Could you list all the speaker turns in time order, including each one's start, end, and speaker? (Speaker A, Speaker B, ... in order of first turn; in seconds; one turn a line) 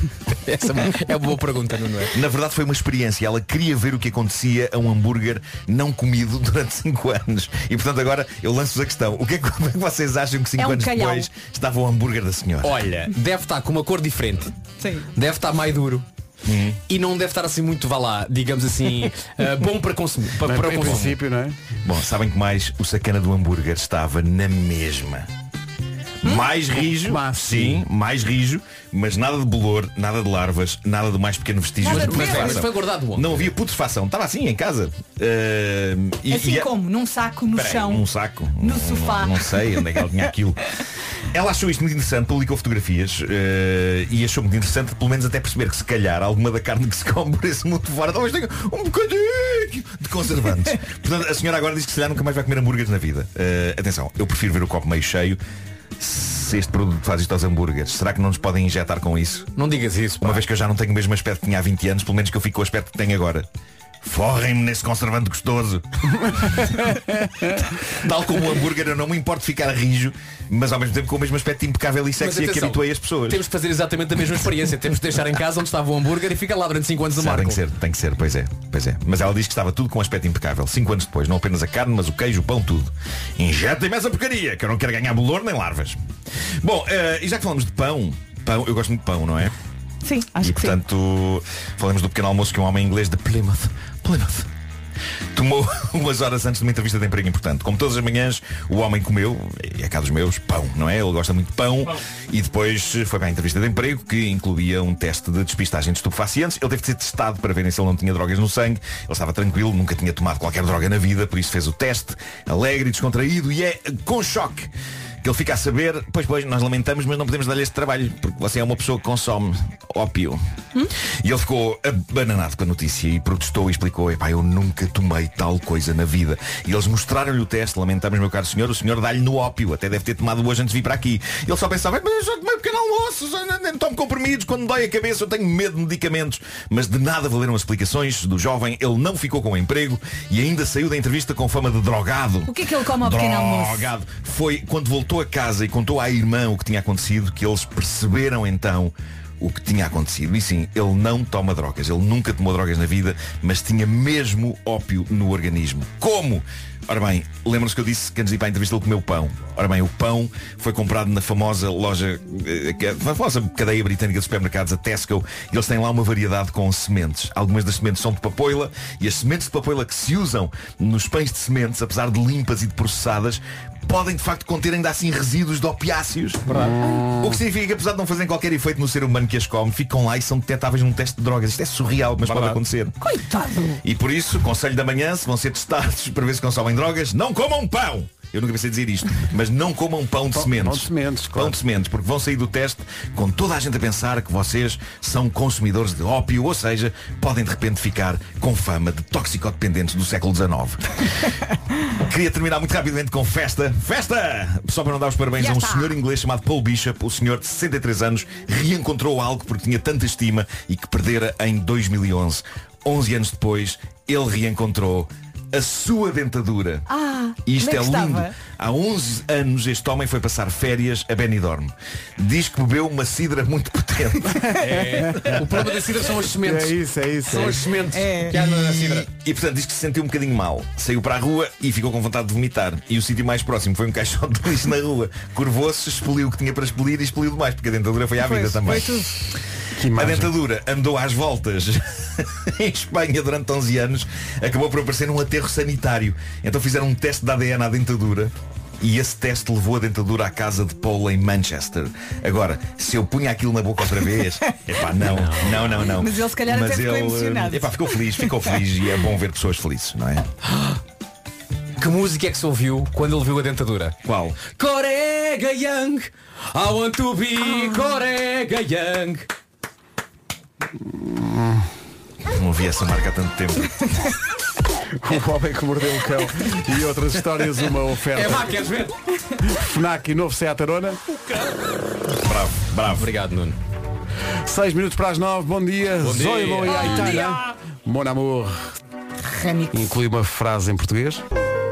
Speaker A: 0.5-2.1
Speaker B: 2.1-12.8
Speaker C: 10.6-11.3
Speaker A: 12.6-14.5
Speaker C: 14.8-15.1
Speaker A: 15.2-16.1
Speaker B: 16.4-16.8
Speaker A: 16.9-21.2
Speaker D: 20.4-21.6
Speaker B: 21.8-25.3
Speaker B: 26.2-36.7
Speaker D: 27.0-27.8
Speaker C: 31.8-32.6
Speaker A: 31.9-33.5
Speaker C: 36.3-38.1
Speaker B: 37.5-40.6
Speaker C: 38.6-39.8
Speaker B: 41.3-55.4
Speaker B: 56.0-59.5
Speaker A: 59.6-60.5
Speaker B: 60.2-63.5
Speaker B: 64.0-65.8
Speaker D: 66.3-67.5
Speaker B: 67.9-73.4
Speaker A: 72.2-77.6
Speaker B: 77.2-86.0
Speaker B: 86.6-89.5
Speaker C: 90.0-90.8
Speaker B: 90.4-94.5
Speaker B: 95.3-114.7
Speaker B: 115.2-120.4
Speaker B: 121.2-176.6
Speaker C: 142.5-143.9
Speaker D: 176.5-177.4
Speaker B: 177.2-183.0
Speaker A: 182.3-182.6
Speaker C: 183.2-183.6
Speaker B: 183.8-201.2
Speaker D: 190.3-191.6
Speaker B: 202.0-216.9
Speaker C: 205.4-205.9
Speaker C: 216.9-218.3
Speaker B: 217.4-224.5
Speaker A: 224.6-229.1
Speaker D: 224.7-225.4
Speaker D: 226.4-227.7
Speaker C: 227.9-228.4
Speaker B: 228.3-239.2
Speaker C: 238.2-239.2
Speaker D: 239.8-240.3
Speaker B: 239.9-260.2
Speaker A: 255.0-255.8
Speaker C: 255.8-258.3
Speaker A: 260.5-260.8
Speaker A: 261.8-269.3
Speaker B: 264.1-264.4
Speaker D: 270.8-271.7
Speaker B: 272.3-274.1
Speaker D: 275.0-278.6
Speaker A: 278.1-278.9
Speaker D: 279.4-281.0
Speaker B: 282.2-283.1
Speaker A: 282.9-283.6
Speaker D: 284.4-288.7
Speaker A: 286.0-287.2
Speaker C: 289.3-289.9
Speaker D: 289.7-291.2